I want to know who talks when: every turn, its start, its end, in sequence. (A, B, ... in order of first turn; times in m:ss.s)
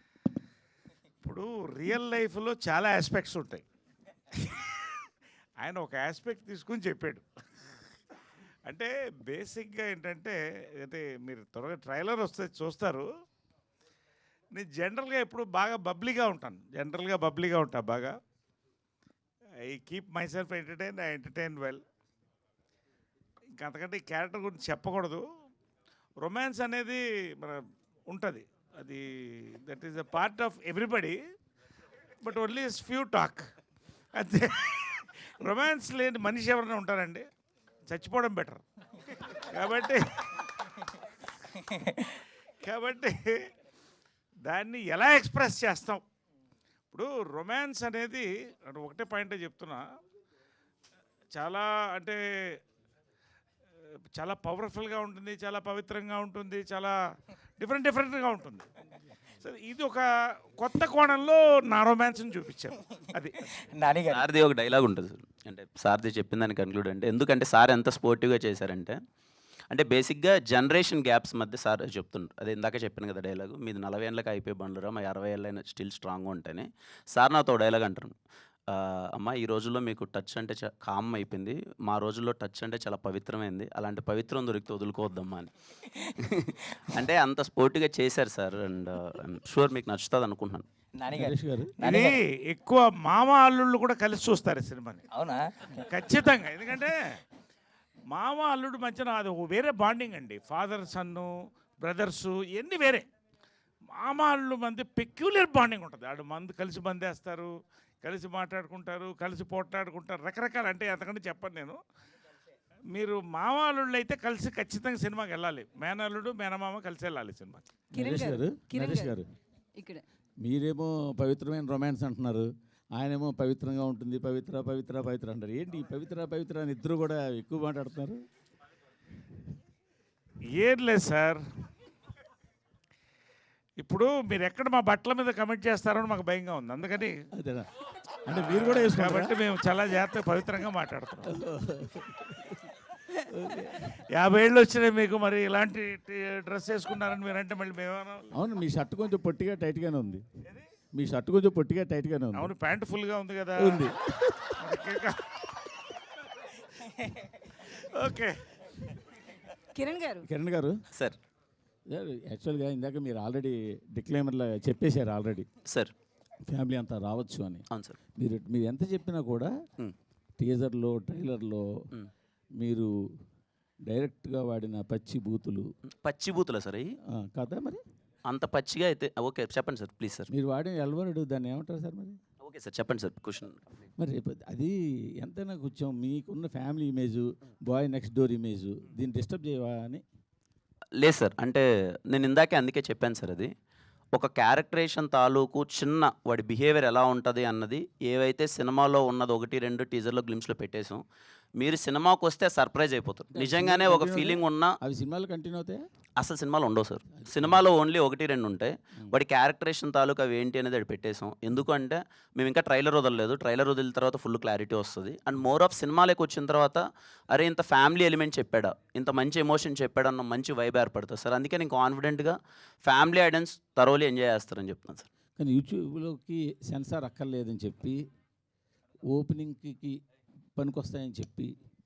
0:01.2-0:03.6 A
0:04.4-0:04.8 A
0:05.6-0:07.2 A
0:08.7-0:13.1 A
0:14.5-0:18.1 A
0:19.6-0:21.8 A
0:23.6-0:25.2 A
0:26.2-0:31.2 A
0:32.2-0:33.4 A
0:34.1-0:37.2 A
0:37.9-0:38.6 A
0:39.3-0:40.5 A
0:42.6-0:43.3 A
0:44.4-0:46.0 A
0:46.9-0:49.9 A
0:51.3-0:52.2 A
0:54.2-0:56.9 A
0:57.6-0:58.7 A
0:59.4-1:00.0 A
1:00.6-1:03.5 A
1:03.6-1:04.2 B
1:04.1-1:09.0 C
1:09.7-1:18.2 C
1:18.7-1:25.5 C
1:26.2-1:30.7 C
1:31.0-1:32.2 B
1:31.1-1:31.8 D
1:31.8-1:35.0 A
1:35.1-1:35.9 B
1:35.8-1:37.2 A
1:38.1-1:41.3 A
1:41.8-1:43.1 A
1:43.9-1:47.5 A
1:48.0-1:51.8 A
1:52.9-1:57.7 A
1:58.0-1:59.2 E
1:58.0-1:59.2 D
1:59.8-2:00.0 E
2:00.4-2:08.2 D
2:10.5-2:11.4 A
2:13.8-2:17.2 A
2:17.4-2:17.7 D
2:18.2-2:19.3 D
2:18.3-2:21.3 A
2:21.3-2:24.0 D
2:24.1-2:28.3 A
2:28.3-2:30.2 D
2:30.9-2:32.5 D
2:32.4-2:33.9 A
2:33.6-2:34.5 D
2:34.6-2:35.4 A
2:37.6-2:38.4 A
2:39.7-2:40.3 E
2:40.2-2:40.7 D
2:40.9-2:41.2 C
2:41.9-2:45.5 D
2:46.5-2:47.7 D
2:47.7-2:48.0 C
2:48.2-2:49.5 D
2:50.4-2:51.6 D
2:52.6-2:52.9 D
2:53.9-2:55.7 D
2:55.9-2:57.0 C
2:57.2-2:57.8 D
2:58.3-3:00.3 C
3:00.3-3:02.2 D
3:02.4-3:03.9 C
3:04.0-3:10.0 D
3:11.0-3:13.5 C
3:14.1-3:21.0 C
3:21.6-3:24.8 C
3:23.3-3:25.8 D
3:26.2-3:45.1 C
3:27.2-3:27.6 D
3:45.4-3:48.0 D
3:49.1-3:50.0 D
3:50.6-3:51.6 D